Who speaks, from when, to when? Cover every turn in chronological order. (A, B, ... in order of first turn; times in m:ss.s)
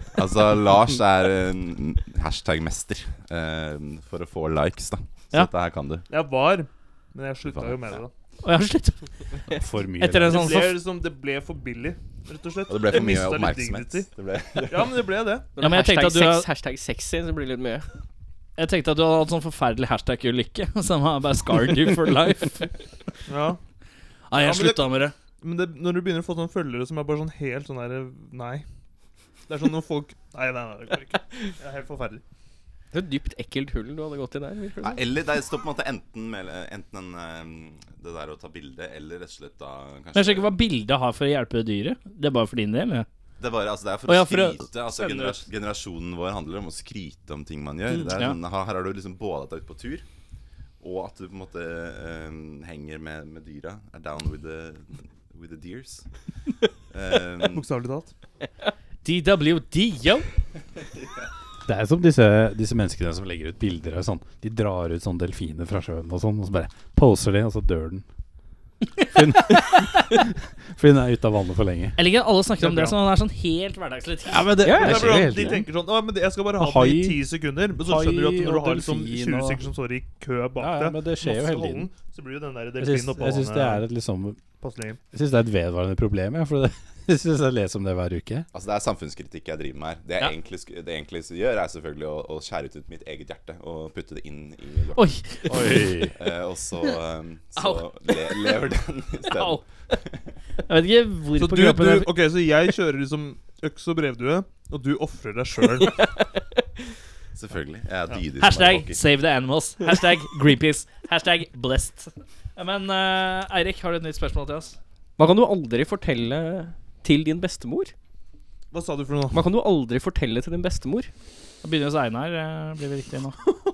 0:00.2-0:06.1 A
0:06.1-0:08.1 B
0:07.4-0:08.0 A
0:08.4-0:09.1 C
0:09.6-0:10.5 D
0:10.0-0:10.8 C
0:10.3-0:14.1 B
0:12.7-0:15.1 A
0:14.7-0:15.5 B
0:15.6-0:17.9 E
0:15.6-0:16.5 C
0:18.6-0:22.8 C
0:23.3-0:23.6 B
0:24.3-0:25.1 C
0:24.4-0:28.6 B
0:29.5-0:32.2 B
0:32.9-0:35.0 E
0:34.8-0:40.6 A
0:40.2-0:43.1 C
0:43.4-0:50.1 A
0:44.1-0:45.4 C
0:50.8-0:56.1 A
0:56.9-0:57.7 A
0:57.5-0:58.1 B
0:59.0-1:00.3 C
1:01.7-1:08.0 D
1:09.0-1:09.9 C
1:09.1-1:12.0 D
1:12.0-1:14.5 C
1:12.6-1:12.9 B
1:14.3-1:15.7 D
1:14.6-1:15.3 E
1:14.7-1:23.8 B
1:16.6-1:17.2 D
1:17.8-1:19.6 D
1:20.6-1:21.9 D
1:22.8-1:24.4 D
1:24.6-1:25.0 B
1:25.1-1:28.5 D
1:28.5-1:40.3 A
1:35.0-1:35.8 C
1:35.5-1:36.2 D
1:37.6-1:38.5 C
1:39.3-1:39.7 C
1:40.7-1:42.1 C
1:41.4-1:46.0 B
1:47.4-1:49.0 A
1:48.4-1:54.8 C
1:55.2-1:57.9 E
1:58.7-1:59.4 B
1:59.3-2:01.1 E
2:01.6-2:03.4 C